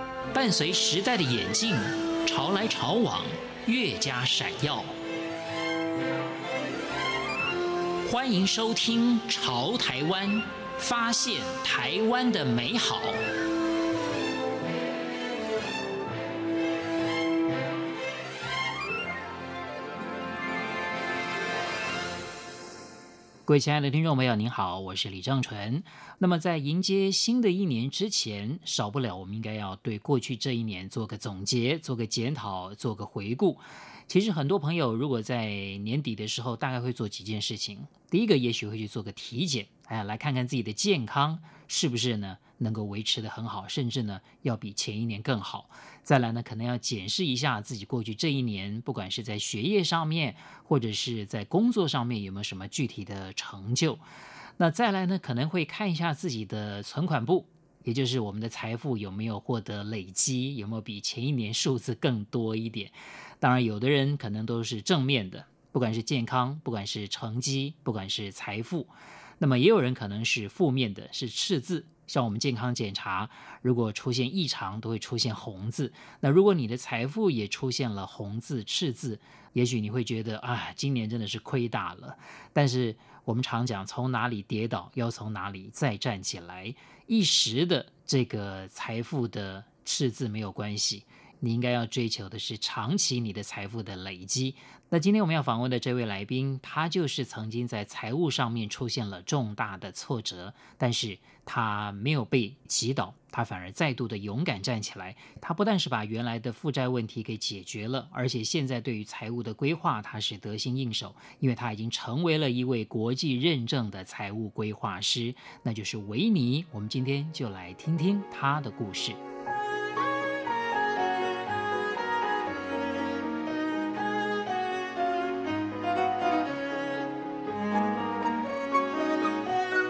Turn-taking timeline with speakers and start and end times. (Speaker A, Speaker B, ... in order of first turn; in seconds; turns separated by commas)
Speaker A: 0.3-4.9, Speaker A: 8.0-13.2, Speaker A: 23.5-54.0, Speaker A: 54.6-119.2